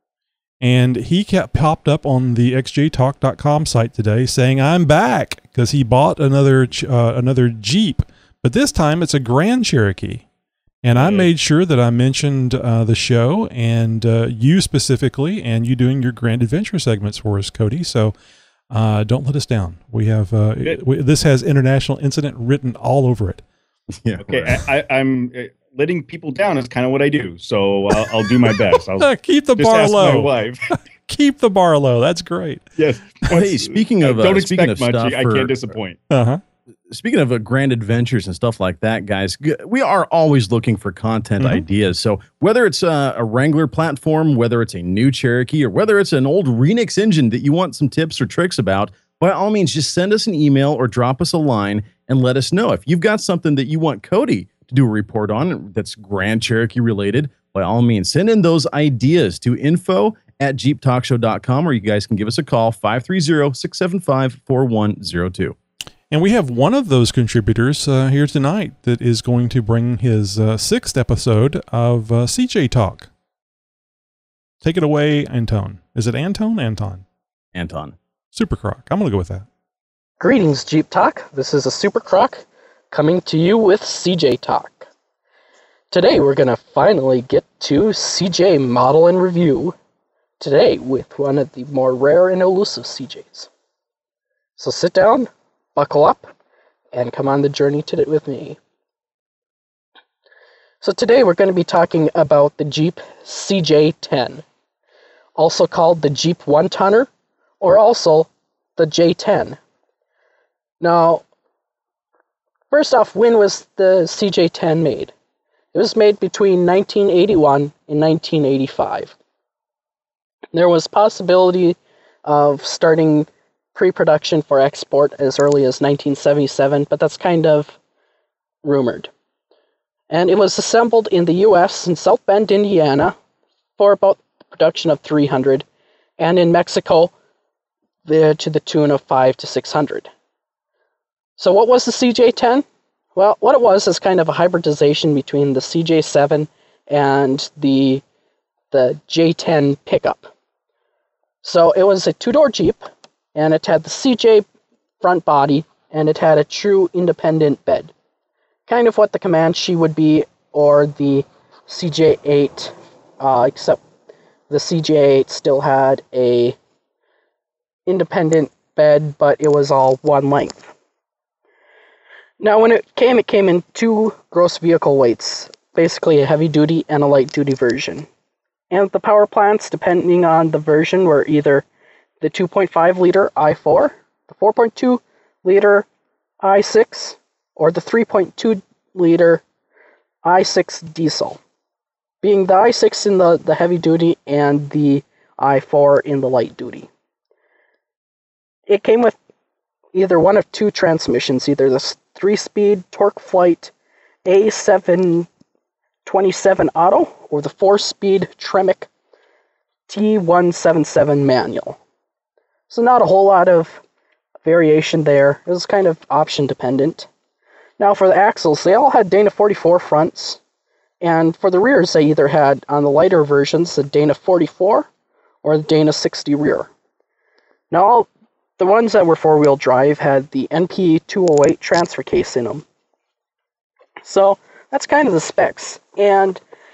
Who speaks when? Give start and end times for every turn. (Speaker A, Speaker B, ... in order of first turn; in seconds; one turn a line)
Speaker A: 0.6-10.2
Speaker A: 10.8-18.1
Speaker B: 10.9-11.3
Speaker A: 18.7-23.4
Speaker C: 24.0-24.6
Speaker B: 24.2-30.6
Speaker A: 29.0-30.3
Speaker A: 31.1-32.6
Speaker B: 32.8-36.0
Speaker C: 33.3-35.8
Speaker A: 36.1-36.4
Speaker C: 36.9-65.5
Speaker A: 66.1-73.1
Speaker A: 74.6-77.0
Speaker C: 77.5-77.9
Speaker A: 78.3-79.5
Speaker D: 80.2-84.9
Speaker D: 85.9-89.7
Speaker D: 90.4-93.5
Speaker D: 94.6-96.3
Speaker D: 96.9-98.6
Speaker D: 100.8-104.4
Speaker D: 105.4-107.1
Speaker D: 107.6-109.6
Speaker D: 110.8-111.2
Speaker D: 112.7-115.1
Speaker D: 115.7-119.1
Speaker D: 120.5-127.8
Speaker D: 128.6-129.1
Speaker D: 130.1-133.2
Speaker D: 133.8-135.7
Speaker D: 136.2-137.1
Speaker D: 138.0-140.1
Speaker D: 141.4-142.6
Speaker D: 143.1-148.0
Speaker D: 148.7-150.3
Speaker D: 151.4-152.8
Speaker D: 153.3-154.4
Speaker D: 155.0-157.9
Speaker D: 158.7-163.8
Speaker D: 164.5-166.6
Speaker D: 167.8-170.7
Speaker D: 172.4-178.1
Speaker D: 178.7-181.6
Speaker D: 182.2-185.8
Speaker D: 186.4-189.4
Speaker D: 190.2-191.4
Speaker D: 192.2-196.9
Speaker D: 198.7-199.2
Speaker D: 199.9-203.7
Speaker D: 204.2-205.3
Speaker D: 206.1-208.9
Speaker D: 209.9-211.8
Speaker D: 212.7-213.8
Speaker D: 214.4-217.1
Speaker D: 217.8-220.4
Speaker D: 221.0-224.9
Speaker D: 225.4-226.7
Speaker D: 227.7-232.6
Speaker D: 234.0-236.4